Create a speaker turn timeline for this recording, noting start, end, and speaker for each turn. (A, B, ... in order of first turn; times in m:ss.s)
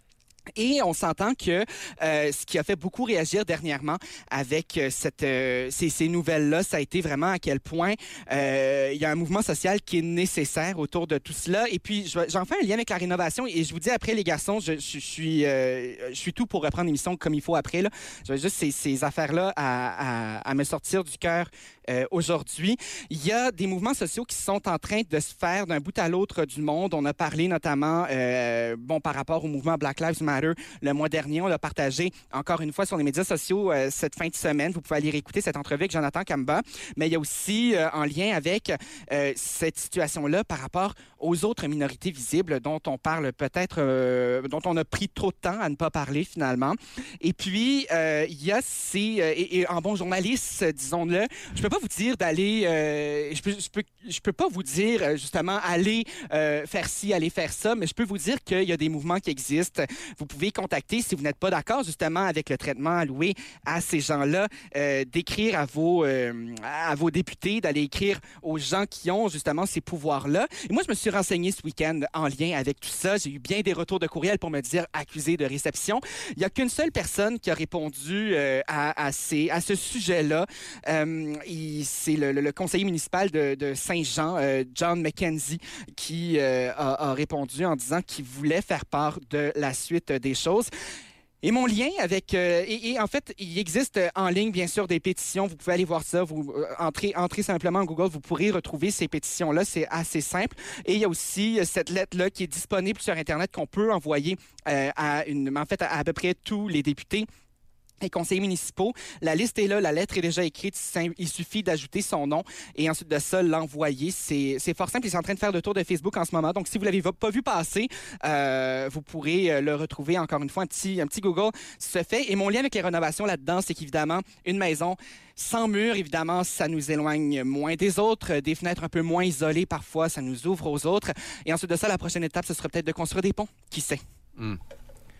0:00.6-1:30.7 A
1:31.4-1:47.3 A
1:48.0-2:14.0 A